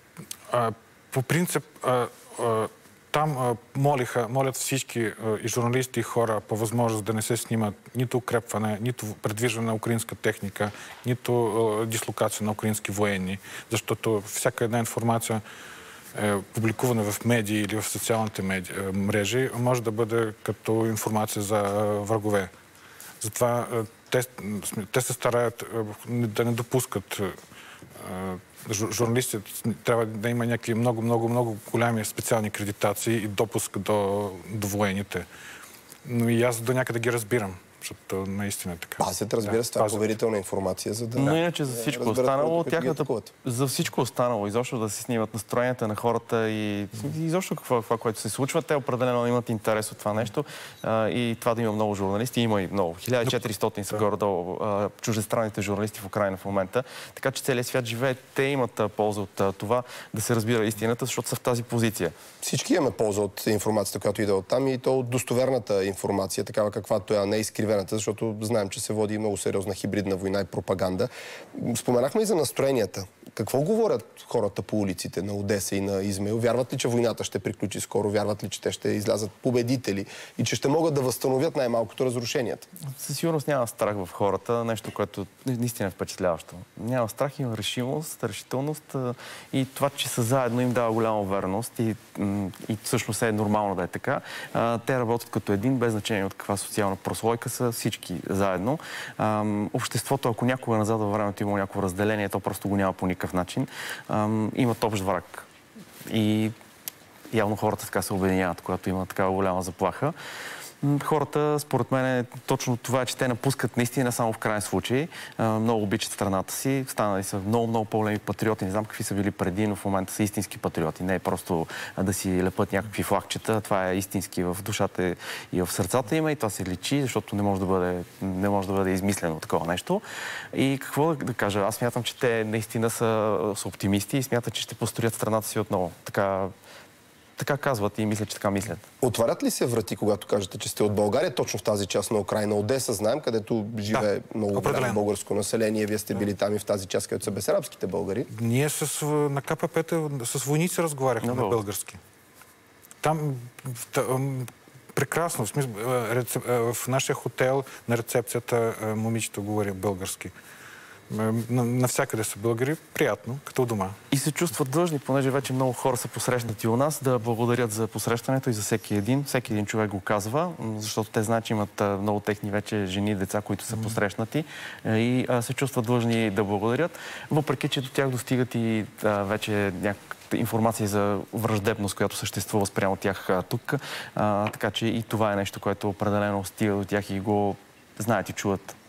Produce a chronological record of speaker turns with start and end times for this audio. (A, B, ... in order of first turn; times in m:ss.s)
0:00.5-0:15.4 A
0:16.1-0:22.5 A
0:23.2-0:27.3 A
0:28.0-0:35.2 A
0:36.0-0:40.1 A
0:39.0-0:43.3 B
0:41.2-1:02.1 C
1:02.4-1:22.6 B
1:23.0-1:45.5 C
1:46.1-1:46.5 C
1:47.3-1:50.1 C
1:50.8-2:10.0 C
2:10.5-2:16.5 C
2:17.4-2:18.8 C
2:19.0-2:28.3 B
2:23.9-2:25.0 A
2:28.3-2:32.0 A
2:31.2-2:31.6 C
2:33.0-2:40.3 A
2:41.1-2:44.0 A
2:44.1-3:08.7 C